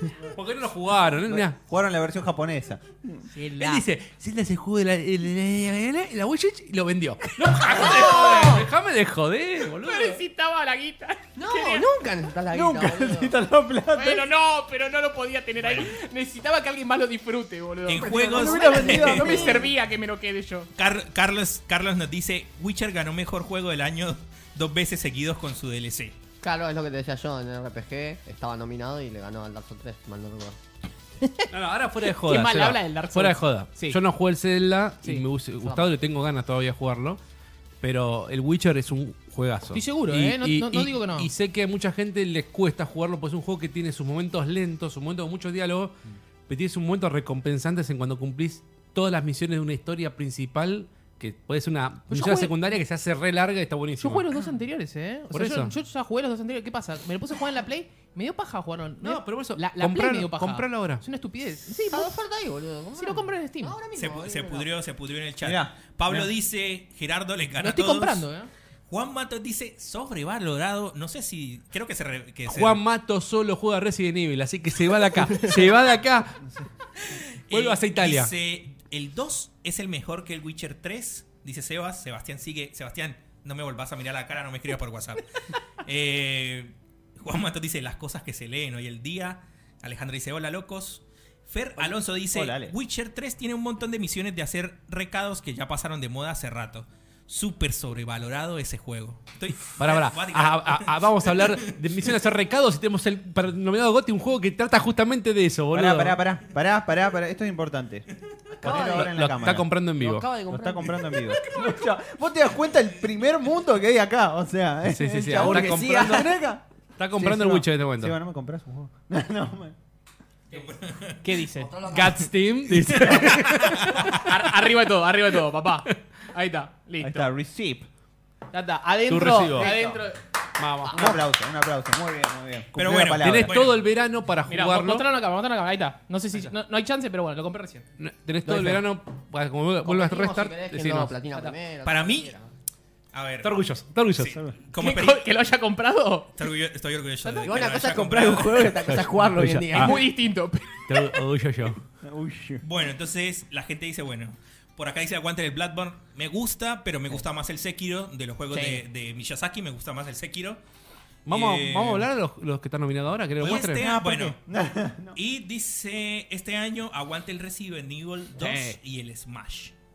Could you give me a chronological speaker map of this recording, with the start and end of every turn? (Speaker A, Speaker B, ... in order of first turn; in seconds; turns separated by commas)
Speaker A: 0.3-1.6, Speaker B: 1.2-3.3, Speaker C: 3.3-3.8, Speaker A: 3.5-10.2, Speaker D: 7.6-8.7, Speaker C: 9.8-11.9, Speaker D: 11.4-13.3, Speaker B: 12.5-14.3, Speaker C: 13.9-20.7, Speaker E: 15.6-15.9, Speaker E: 17.9-19.6, Speaker D: 17.9-19.7, Speaker B: 18.7-19.5, Speaker E: 20.8-26.1, Speaker D: 26.4-30.6, Speaker A: 31.5-37.2, Speaker C: 32.0-34.0, Speaker D: 35.6-35.9, Speaker A: 37.8-54.3, Speaker C: 39.7-41.3, Speaker C: 52.1-52.6, Speaker C: 54.0-62.2, Speaker A: 55.3-55.7, Speaker A: 59.0-61.0, Speaker D: 61.9-64.7, Speaker C: 63.0-63.8, Speaker E: 63.9-68.2, Speaker B: 65.4-66.3, Speaker C: 67.6-68.5, Speaker E: 68.9-72.8, Speaker A: 72.5-76.4, Speaker E: 77.1-85.3, Speaker A: 77.5-78.3, Speaker E: 85.8-102.1, Speaker B: 92.3-92.7, Speaker A: 99.8-106.2, Speaker B: 105.7-109.7, Speaker D: 108.6-109.3, Speaker A: 108.7-110.3, Speaker D: 109.9-111.7, Speaker B: 110.5-119.8, Speaker A: 114.9-116.5, Speaker A: 117.0-118.2, Speaker E: 120.5-121.2, Speaker C: 121.2-122.0, Speaker D: 121.5-122.4, Speaker A: 121.8-124.2, Speaker B: 122.7-123.5, Speaker E: 122.9-124.2, Speaker C: 124.1-127.3, Speaker B: 127.0-127.9, Speaker C: 128.5-130.2, Speaker A: 129.1-129.7, Speaker B: 129.6-130.0, Speaker A: 130.6-131.2, Speaker B: 130.9-133.6, Speaker E: 132.7-133.9, Speaker A: 133.2-135.1, Speaker C: 134.5-137.9, Speaker A: 138.0-141.2, Speaker D: 138.4-138.9, Speaker D: 139.8-142.5, Speaker E: 141.8-142.3, Speaker E: 143.1-143.6, Speaker A: 143.4-144.4, Speaker E: 144.2-145.3, Speaker C: 144.8-146.3, Speaker E: 146.3-149.0, Speaker C: 147.2-147.6, Speaker D: 147.4-150.0, Speaker A: 148.8-150.0, Speaker C: 149.7-151.2, Speaker A: 150.9-151.8, Speaker B: 152.0-152.6, Speaker E: 152.6-160.6, Speaker D: 158.5-158.8, Speaker A: 161.2-163.9, Speaker E: 161.3-162.1, Speaker E: 163.4-164.4, Speaker B: 163.5-165.2, Speaker E: 165.1-169.7, Speaker A: 168.3-168.8